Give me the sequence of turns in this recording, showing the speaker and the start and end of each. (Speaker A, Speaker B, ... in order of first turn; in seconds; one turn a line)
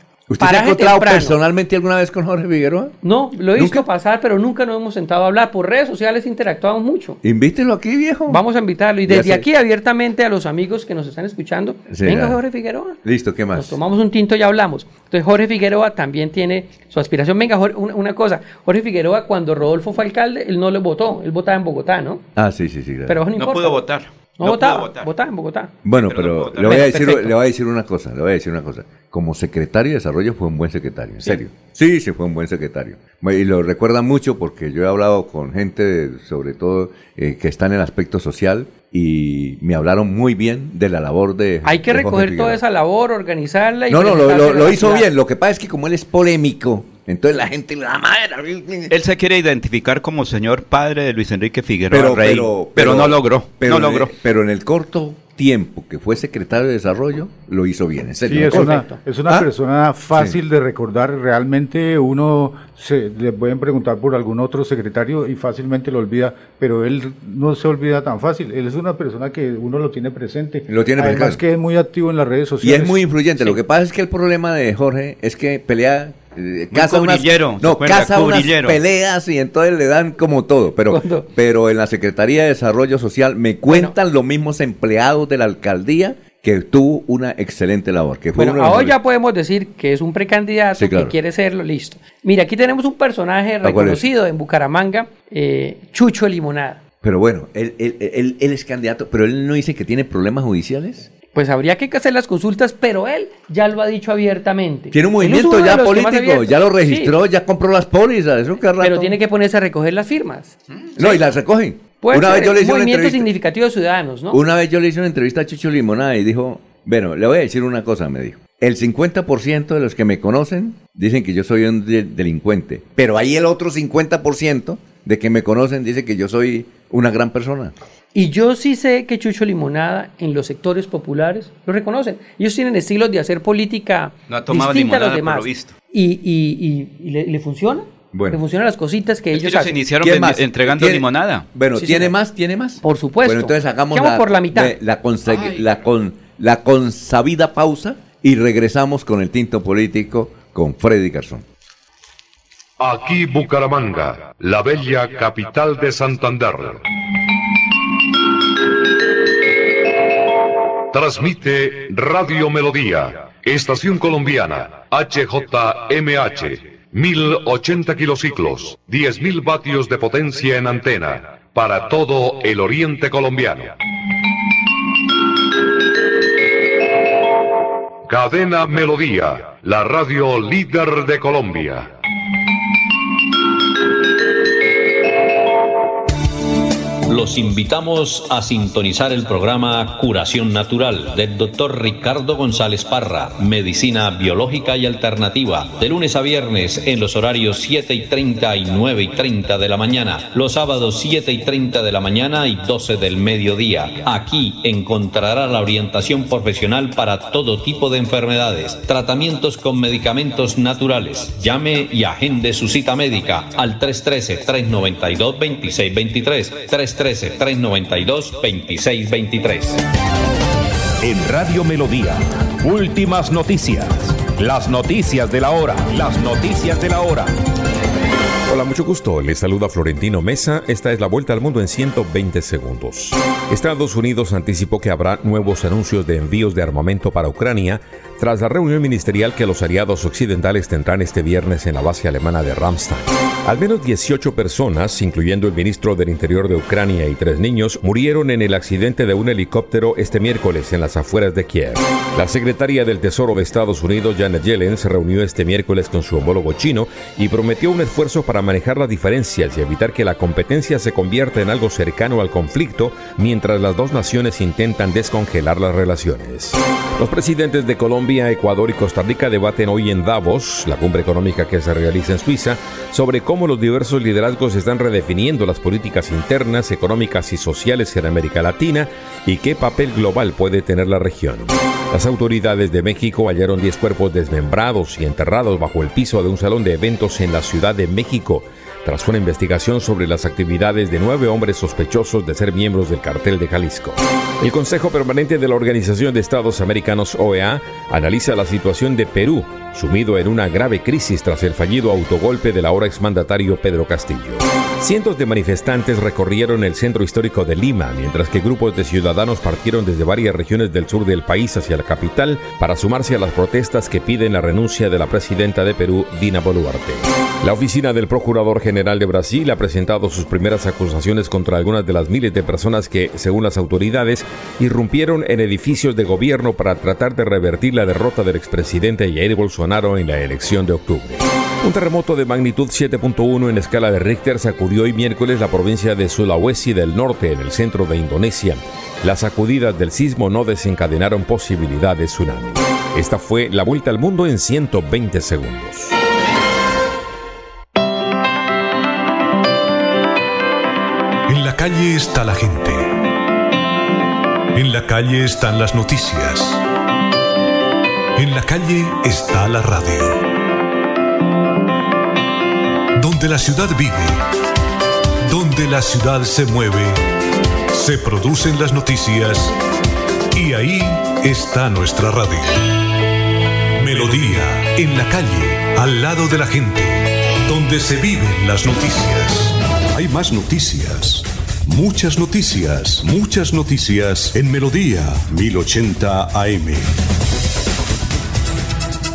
Speaker A: 0.3-3.0
Speaker B: 0.4-1.4
Speaker B: 3.0-7.2
Speaker A: 3.5-3.9
Speaker A: 7.2-8.4
Speaker B: 8.3-13.0
Speaker A: 9.1-9.5
Speaker A: 11.9-12.4
Speaker A: 13.0-13.8
Speaker B: 13.6-22.3
Speaker A: 22.4-23.2
Speaker B: 23.1-23.8
Speaker C: 23.4-25.1
Speaker B: 24.4-25.7
Speaker A: 25.8-42.6
Speaker C: 26.1-27.1
Speaker B: 26.7-27.3
Speaker B: 41.6-45.1
Speaker A: 43.9-48.9
Speaker C: 48.9-54.1
Speaker A: 51.9-59.5
Speaker D: 58.2-73.0
Speaker B: 58.6-59.0
Speaker A: 70.7-71.4
Speaker A: 72.6-89.0
Speaker C: 76.7-78.8
Speaker B: 80.9-81.3
Speaker B: 83.7-83.9
Speaker B: 88.4-96.8
Speaker A: 90.7-91.1
Speaker A: 93.6-94.1
Speaker A: 97.0-101.1
Speaker B: 101.3-107.1
Speaker A: 104.9-109.2
Speaker B: 108.8-111.2
Speaker A: 111.0-113.3
Speaker B: 111.9-114.4
Speaker A: 114.3-127.8
Speaker B: 128.1-139.8
Speaker C: 134.3-135.7
Speaker A: 138.1-138.4
Speaker C: 139.3-141.5
Speaker A: 140.0-151.4
Speaker B: 141.8-142.1
Speaker B: 142.8-144.8
Speaker C: 145.3-145.7
Speaker E: 152.8-156.8
Speaker E: 160.9-173.8
Speaker E: 178.1-181.9
Speaker F: 187.1-219.8
Speaker G: 221.0-227.3
Speaker H: 228.5-345.9
Speaker I: 351.3-353.0
Speaker I: 354.5-356.6
Speaker I: 358.2-360.2
Speaker I: 363.0-364.2
Speaker I: 365.3-367.0
Speaker I: 367.7-369.6
Speaker I: 370.3-372.8
Speaker I: 373.8-387.0